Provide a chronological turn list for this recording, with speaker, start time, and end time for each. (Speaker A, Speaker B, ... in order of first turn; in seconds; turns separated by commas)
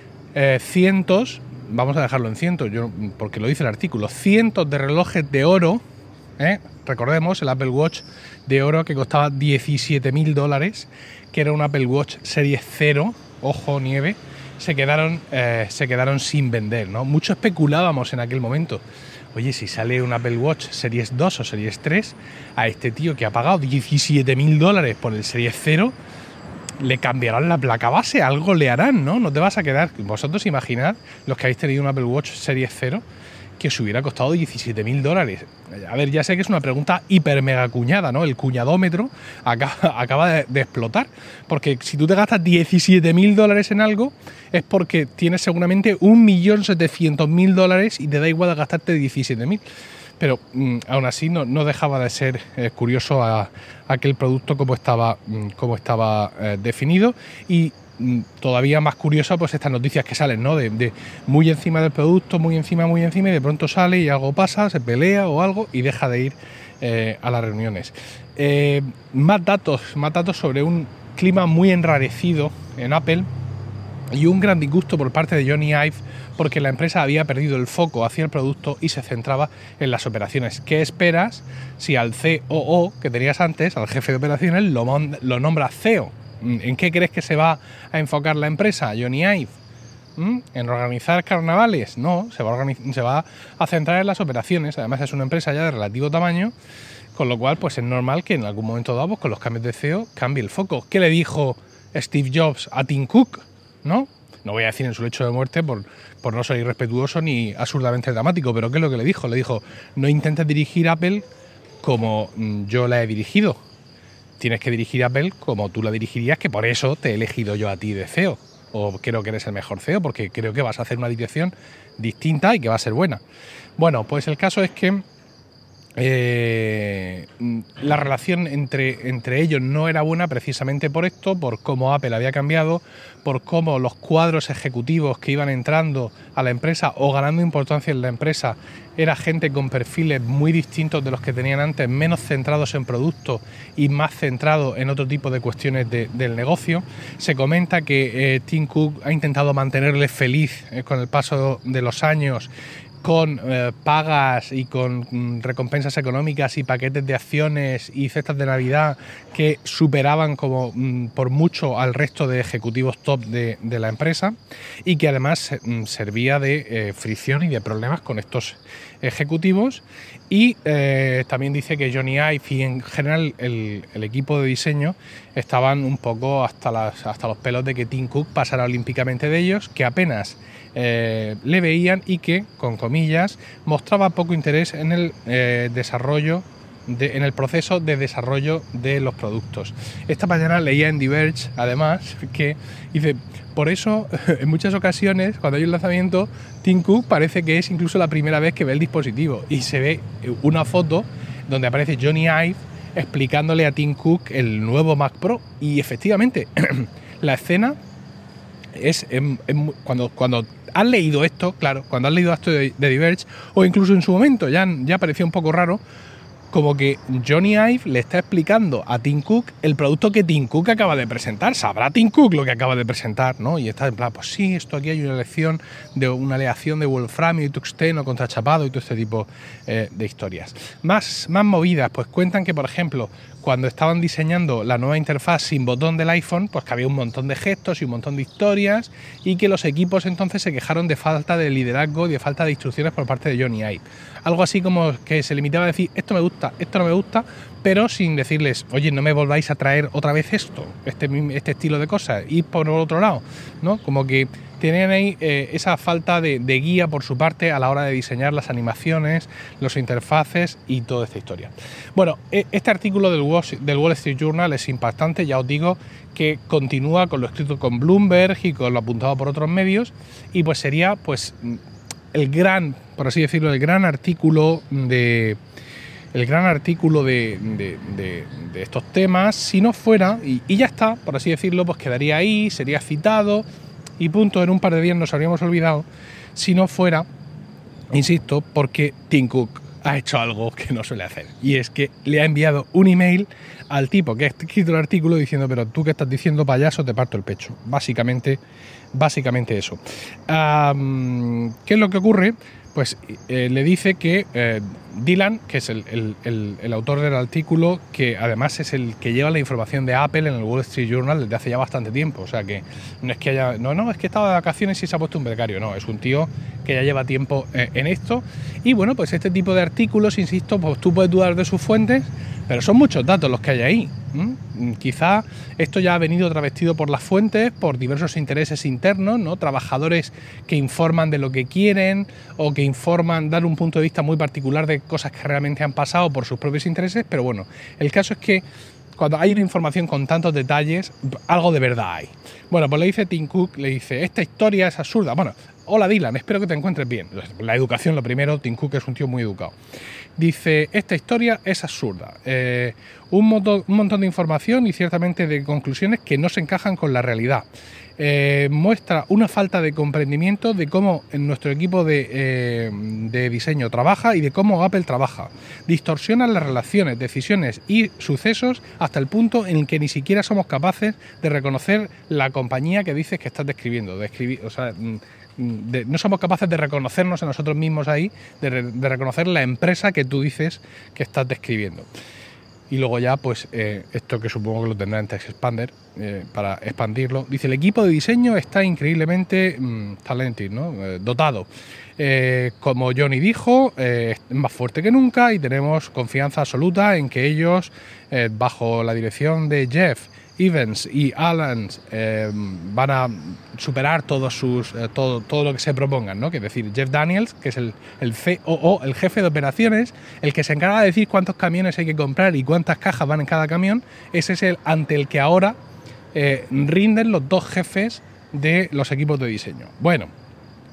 Speaker A: 0.3-5.8, Speaker A: 6.4-18.8, Speaker A: 19.3-25.9, Speaker A: 26.8-33.0, Speaker A: 33.6-49.6, Speaker A: 50.2-73.3, Speaker A: 74.1-89.5, Speaker A: 90.2-96.5, Speaker A: 97.1-111.2, Speaker A: 111.8-113.6, Speaker A: 114.4-123.2, Speaker A: 123.8-125.0, Speaker A: 126.0-152.5, Speaker A: 153.0-207.8, Speaker A: 208.7-215.8, Speaker A: 216.5-271.6, Speaker A: 272.1-275.4, Speaker A: 276.1-283.4, Speaker A: 284.0-287.1, Speaker A: 287.9-298.4, Speaker A: 298.9-338.4, Speaker A: 338.9-349.5, Speaker A: 350.2-357.4, Speaker A: 358.0-381.9, Speaker A: 382.7-415.6, Speaker A: 416.1-420.1